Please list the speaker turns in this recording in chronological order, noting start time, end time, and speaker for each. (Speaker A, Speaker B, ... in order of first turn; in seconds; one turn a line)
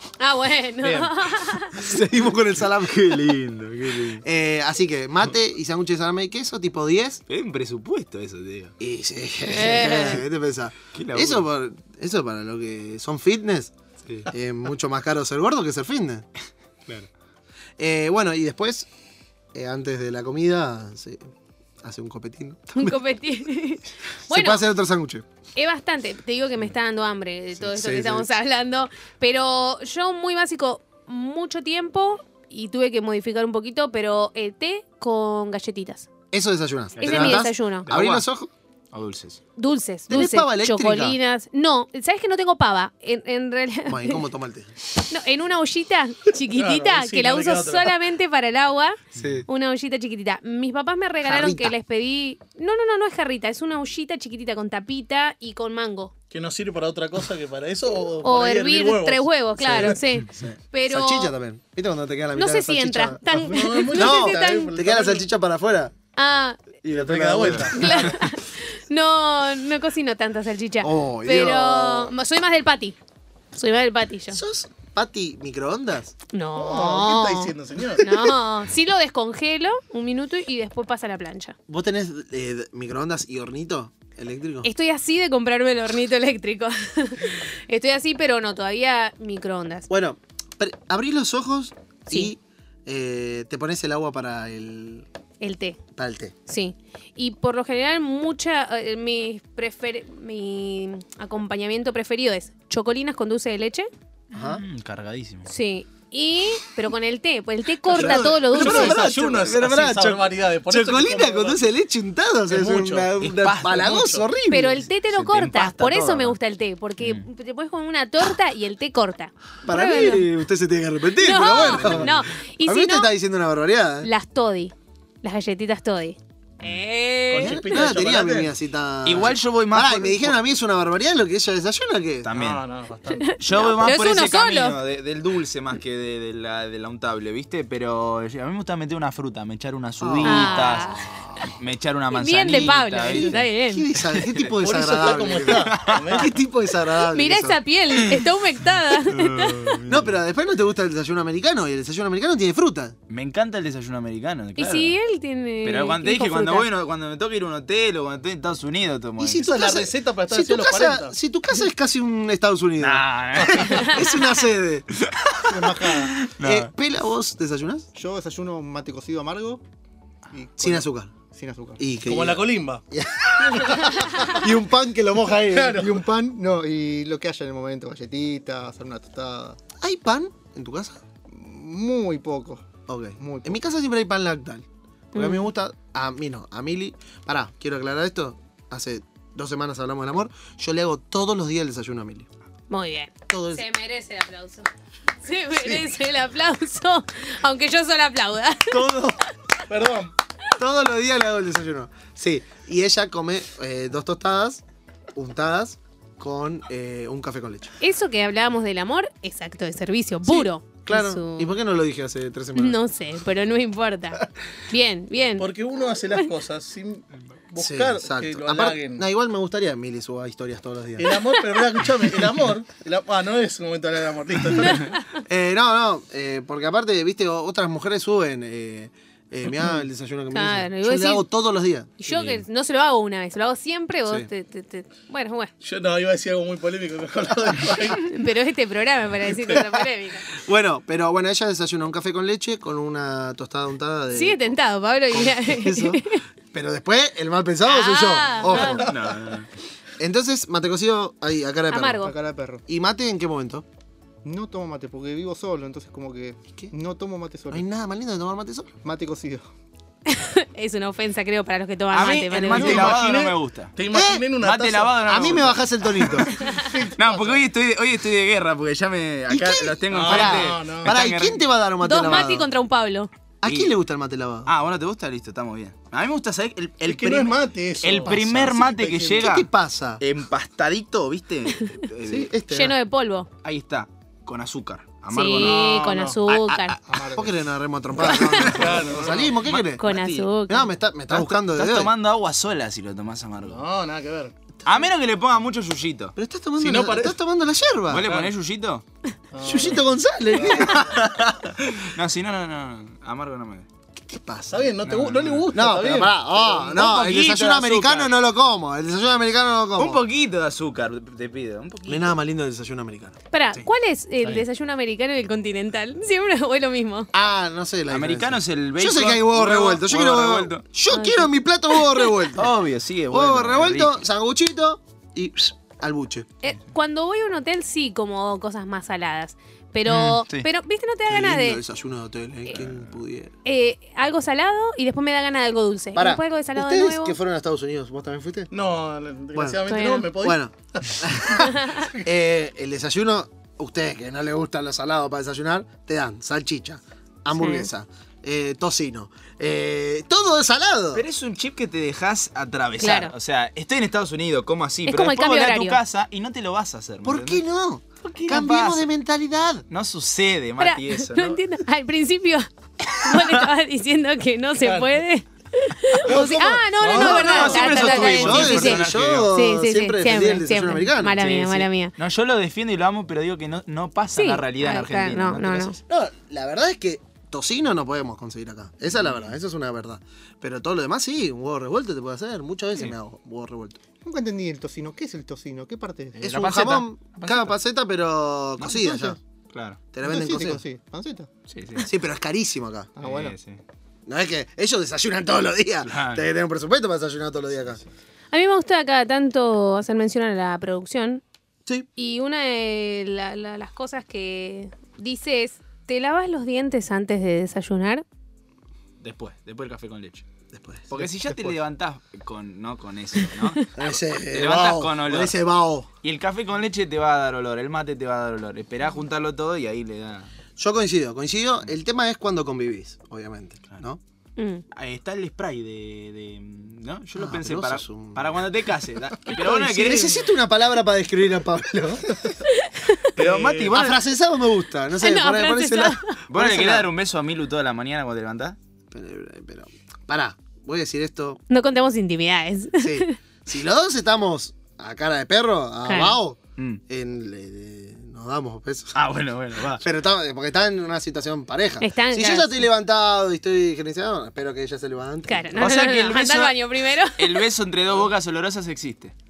Speaker A: 0.2-1.8
Speaker B: 0.8-1.1
Speaker C: 1.8-3.4
Speaker D: 1.9-4.2
Speaker C: 4.0-7.2
Speaker D: 7.3-8.7
Speaker C: 8.8-13.7
Speaker A: 9.4-10.2
Speaker D: 10.9-11.5
Speaker C: 14.3-16.2
Speaker C: 17.8-18.9
Speaker C: 19.5-21.3
Speaker C: 21.8-23.0
Speaker A: 22.8-24.6
Speaker C: 24.3-25.2
Speaker A: 25.6-36.1
Speaker C: 27.6-28.3
Speaker C: 36.3-38.5
Speaker D: 37.0-38.2
Speaker A: 37.0-37.9
Speaker D: 38.9-39.4
Speaker A: 39.6-44.2
Speaker C: 40.1-41.2
Speaker C: 43.9-44.7
Speaker A: 45.1-56.1
Speaker B: 46.5-48.0
Speaker D: 49.1-49.5
Speaker C: 51.2-51.7
Speaker B: 56.3-60.0
Speaker A: 58.2-61.3
Speaker C: 59.6-63.2
Speaker A: 62.4-64.7
Speaker B: 63.3-65.2
Speaker C: 63.9-65.9
Speaker A: 66.2-66.6
Speaker C: 66.8-68.0
Speaker B: 66.9-68.1
Speaker D: 67.0-68.0
Speaker A: 67.7-73.0
Speaker C: 70.8-72.1
Speaker A: 73.5-74.4
Speaker C: 74.3-76.1
Speaker A: 76.3-81.6
Speaker B: 76.5-78.4
Speaker C: 81.7-84.7
Speaker A: 84.6-89.9
Speaker C: 89.9-95.1
Speaker A: 95.4-95.8
Speaker C: 96.0-96.3
Speaker A: 96.5-103.9
Speaker C: 104.3-104.6
Speaker D: 104.3-105.5
Speaker A: 105.5-109.0
Speaker B: 107.9-111.6
Speaker C: 107.9-114.9
Speaker B: 112.5-113.1
Speaker D: 113.2-113.8
Speaker B: 113.6-114.2
Speaker A: 114.5-120.3
Speaker D: 115.1-116.4
Speaker C: 119.6-124.1
Speaker A: 121.2-123.1
Speaker D: 121.8-122.1
Speaker A: 124.0-127.9
Speaker B: 127.3-128.5
Speaker C: 127.4-132.3
Speaker D: 129.0-130.4
Speaker D: 132.2-132.6
Speaker B: 132.3-133.4
Speaker A: 133.1-134.8
Speaker D: 133.4-143.4
Speaker C: 140.0-141.4
Speaker A: 140.2-141.0
Speaker A: 142.1-143.9
Speaker C: 142.5-147.6
Speaker D: 144.2-144.5
Speaker B: 144.6-146.3
Speaker D: 145.5-146.2
Speaker A: 147.1-149.8
Speaker D: 149.0-150.1
Speaker C: 149.9-153.0
Speaker D: 153.1-155.0
Speaker A: 154.6-156.7
Speaker D: 155.6-159.5
Speaker C: 159.2-164.9
Speaker B: 159.3-161.1
Speaker D: 162.8-164.1
Speaker B: 163.4-163.8
Speaker D: 165.0-166.7
Speaker E: 165.5-166.3
Speaker C: 166.4-167.9
Speaker E: 167.9-169.6
Speaker E: 170.3-171.8
Speaker C: 170.6-171.1
Speaker C: 171.8-175.9
Speaker B: 172.1-172.8
Speaker B: 173.5-174.4
Speaker B: 175.5-176.0
Speaker E: 175.8-179.6
Speaker C: 179.8-181.0
Speaker E: 181.3-183.5
Speaker C: 182.9-192.3
Speaker A: 185.1-185.5
Speaker A: 192.7-194.7
Speaker C: 193.3-193.7
Speaker A: 195.2-199.1
Speaker C: 195.6-195.8
Speaker C: 198.7-199.2
Speaker B: 199.7-200.1
Speaker C: 200.6-204.6
Speaker C: 205.1-207.7
Speaker A: 207.8-211.5
Speaker C: 210.2-212.8
Speaker A: 212.5-215.5
Speaker B: 215.4-219.0
Speaker C: 217.6-221.2
Speaker B: 221.0-224.9
Speaker A: 224.6-225.2
Speaker C: 225.2-231.9
Speaker A: 230.3-231.2
Speaker A: 232.0-235.5
Speaker D: 232.1-232.4
Speaker B: 235.6-238.1
Speaker A: 238.0-240.3
Speaker C: 239.5-244.4
Speaker A: 244.1-246.2
Speaker C: 245.1-248.9
Speaker A: 247.6-248.8
Speaker B: 248.5-249.1
Speaker D: 248.5-249.5
Speaker C: 250.0-252.1
Speaker A: 251.7-252.1
Speaker E: 252.0-252.6
Speaker C: 252.7-253.7
Speaker E: 254.2-257.6
Speaker C: 257.5-258.7
Speaker E: 258.8-259.5
Speaker A: 260.1-262.9
Speaker D: 261.9-263.8
Speaker B: 262.3-265.0
Speaker C: 263.9-264.3
Speaker D: 264.4-271.4
Speaker C: 265.1-266.3
Speaker A: 266.4-266.7
Speaker E: 266.5-267.4
Speaker C: 269.3-272.5
Speaker B: 269.9-270.9
Speaker A: 271.8-273.1
Speaker C: 273.4-274.5
Speaker D: 273.4-273.7
Speaker D: 274.5-279.5
Speaker B: 276.9-279.3
Speaker C: 278.0-278.6
Speaker C: 279.1-280.0
Speaker D: 280.0-282.3
Speaker C: 282.1-282.8
Speaker A: 282.5-283.3
Speaker D: 283.4-285.6
Speaker A: 285.1-286.8
Speaker B: 285.3-286.2
Speaker D: 286.3-286.8
Speaker C: 287.0-289.9
Speaker A: 288.0-288.5
Speaker D: 288.4-288.7
Speaker B: 288.4-289.4
Speaker D: 289.4-290.3
Speaker A: 289.8-290.7
Speaker C: 290.5-291.9
Speaker D: 291.1-293.6
Speaker B: 293.4-294.3
Speaker D: 294.6-296.1
Speaker C: 296.1-298.1
Speaker B: 296.6-297.2
Speaker D: 297.9-298.8
Speaker B: 298.0-298.3
Speaker B: 299.3-300.8
Speaker C: 299.4-301.0
Speaker D: 300.5-303.6
Speaker C: 304.0-304.8
Speaker B: 304.5-306.8
Speaker D: 304.8-305.5
Speaker C: 305.5-310.0
Speaker D: 306.7-308.1
Speaker D: 309.8-312.2
Speaker C: 311.9-313.2
Speaker A: 313.3-317.1
Speaker C: 317.1-322.5
Speaker D: 317.9-320.6
Speaker A: 320.9-322.0
Speaker D: 322.4-324.0
Speaker C: 323.1-326.3
Speaker A: 326.4-331.6
Speaker D: 329.9-330.5
Speaker C: 331.1-333.3
Speaker D: 332.5-332.9
Speaker A: 333.4-337.1
Speaker C: 335.9-338.5
Speaker B: 338.5-341.0
Speaker C: 339.4-351.0
Speaker A: 339.7-340.1
Speaker A: 341.4-341.9
Speaker A: 347.4-347.7
Speaker D: 350.9-357.4
Speaker A: 352.8-353.1
Speaker A: 354.9-355.8
Speaker C: 357.0-359.6
Speaker D: 358.0-358.9
Speaker D: 359.7-361.4
Speaker A: 360.6-371.9
Speaker D: 362.9-363.5
Speaker B: 364.6-364.9
Speaker B: 366.0-367.9
Speaker D: 366.9-369.3
Speaker C: 366.9-371.2
Speaker D: 371.2-375.8
Speaker A: 374.1-375.8
Speaker C: 375.9-383.8
Speaker D: 379.0-379.3
Speaker E: 384.0-386.3
Speaker C: 386.2-389.2
Speaker D: 386.2-387.6
Speaker E: 388.6-389.2
Speaker D: 389.5-389.8
Speaker C: 389.9-390.6
Speaker E: 390.0-391.3
Speaker D: 391.5-391.9
Speaker C: 391.9-392.9
Speaker E: 393.0-393.4
Speaker D: 393.0-393.6
Speaker C: 394.1-397.8
Speaker D: 395.9-396.2
Speaker A: 398.3-401.2
Speaker A: 402.0-408.0
Speaker D: 409.0-410.2
Speaker C: 410.5-411.5
Speaker D: 410.9-415.4
Speaker C: 413.7-415.9
Speaker D: 416.0-420.3
Speaker C: 420.6-424.0
Speaker A: 424.4-424.6
Speaker D: 424.7-430.3
Speaker C: 427.1-428.3
Speaker C: 429.2-432.2
Speaker A: 432.5-433.1
Speaker D: 433.1-434.0
Speaker B: 433.2-433.7
Speaker C: 433.6-436.9
Speaker A: 435.0-436.2
Speaker D: 436.3-438.6
Speaker C: 438.9-441.4
Speaker A: 441.5-443.2
Speaker C: 442.8-449.0
Speaker A: 445.9-446.2
Speaker D: 448.9-449.9
Speaker C: 449.8-455.7
Speaker A: 451.8-452.6
Speaker A: 455.3-457.4
Speaker D: 455.5-459.1